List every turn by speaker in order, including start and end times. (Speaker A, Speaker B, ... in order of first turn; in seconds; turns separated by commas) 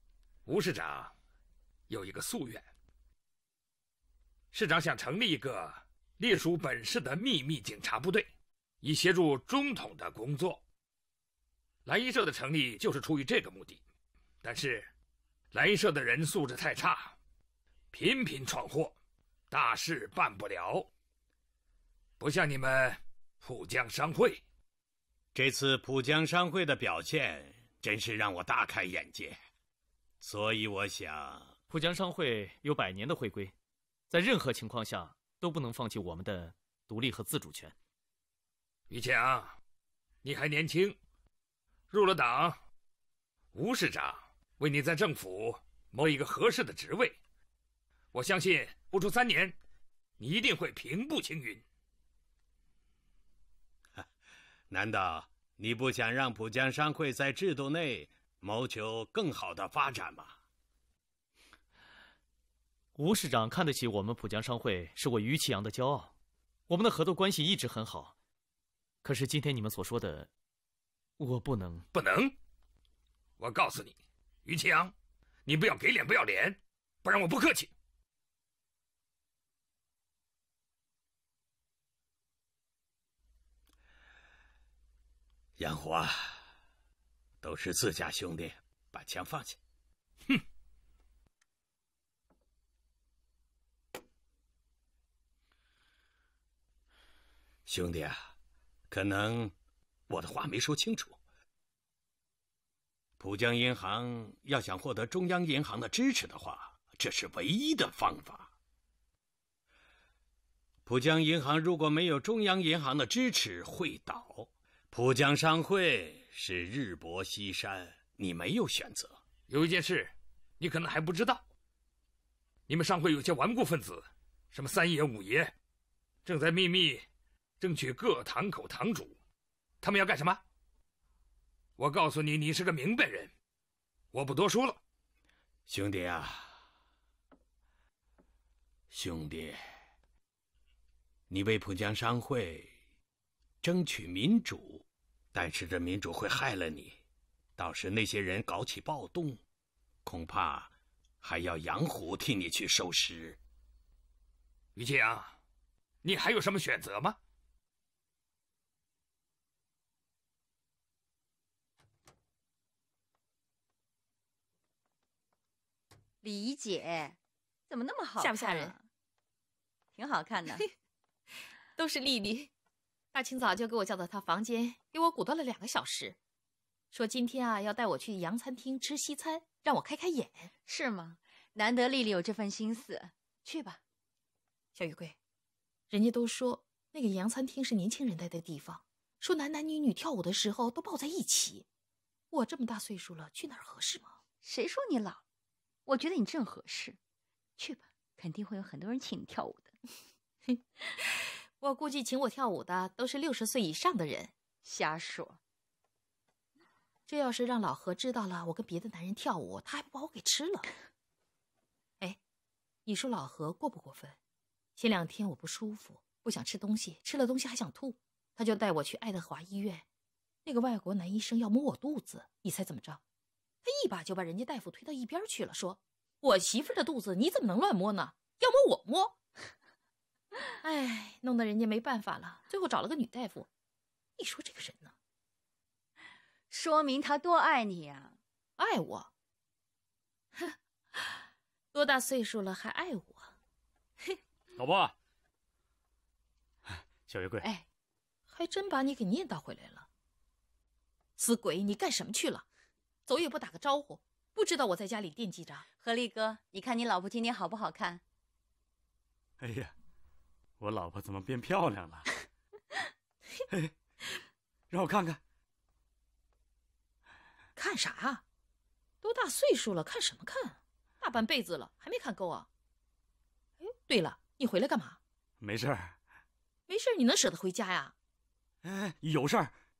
Speaker A: 0.5-1.1, Speaker A: 1.9-2.6, Speaker A: 4.5-8.3, Speaker A: 8.8-10.6, Speaker A: 11.9-13.8, Speaker A: 14.4-14.9, Speaker A: 15.5-17.1, Speaker A: 17.9-18.9, Speaker A: 19.5-20.9, Speaker A: 22.2-24.4, Speaker B: 25.4-29.4, Speaker B: 30.2-31.5, Speaker C: 31.7-33.5, Speaker C: 34.1-37.8, Speaker A: 38.9-39.6, Speaker A: 40.2-41.0, Speaker A: 41.9-42.6, Speaker A: 43.5-47.2, Speaker A: 48.1-49.6, Speaker A: 50.2-51.6, Speaker B: 54.7-60.4, Speaker C: 63.0-66.1, Speaker C: 66.7-68.2, Speaker C: 69.0-70.3, Speaker C: 71.2-71.8, Speaker A: 71.9-72.3, Speaker A: 73.4-74.9, Speaker A: 75.5-77.7, Speaker B: 85.6-86.4, Speaker B: 87.4-89.6, Speaker B: 97.7-98.3, Speaker B: 98.9-99.5, Speaker B: 100.1-101.2, Speaker B: 103.2-108.5, Speaker B: 110.9-119.2, Speaker A: 119.5-121.4, Speaker A: 122.7-125.5, Speaker A: 126.2-127.0, Speaker A: 127.6-129.2, Speaker A: 129.8-130.4, Speaker A: 131.8-133.3, Speaker A: 134.1-134.8, Speaker B: 135.7-136.6, Speaker B: 138.9-139.6, Speaker B: 141.3-142.7, Speaker B: 143.6-147.0, Speaker B: 147.6-149.4, Speaker B: 150.1-153.4, Speaker A: 154.8-155.4, Speaker A: 156.0-157.2, Speaker D: 166.2-167.2, Speaker D: 167.7-168.8, Speaker E: 168.2-168.8, Speaker D: 169.9-170.7, Speaker E: 171.8-172.5, Speaker E: 173.1-176.2, Speaker E: 176.9-180.5, Speaker D: 180.7-183.8, Speaker E: 184.8-185.2, Speaker E: 185.9-191.7, Speaker E: 192.3-194.2, Speaker D: 194.4-195.2, Speaker D: 195.9-197.0, Speaker D: 197.6-199.8, Speaker E: 200.5-204.3, Speaker D: 204.6-205.4, Speaker E: 207.1-210.7, Speaker E: 212.9-214.2, Speaker E: 214.8-219.8, Speaker E: 220.4-223.0, Speaker E: 223.6-229.2, Speaker E: 230.6-233.5, Speaker E: 234.2-234.9, Speaker D: 236.5-238.2, Speaker E: 238.6-239.1, Speaker E: 240.4-241.2, Speaker E: 241.7-243.3, Speaker F: 244.6-245.0, Speaker F: 246.7-247.5, Speaker E: 248.3-249.9, Speaker E: 251.2-252.4, Speaker E: 253.1-255.7, Speaker D: 255.8-258.0, Speaker F: 259.4-259.7, Speaker F: 260.6-262.2, Speaker F: 264.7-265.2, Speaker E: 267.6-268.2, Speaker E: 269.0-272.5, Speaker E: 273.6-275.0, Speaker F: 275.4-276.0, Speaker E: 276.7-277.9, Speaker F: 278.6-279.6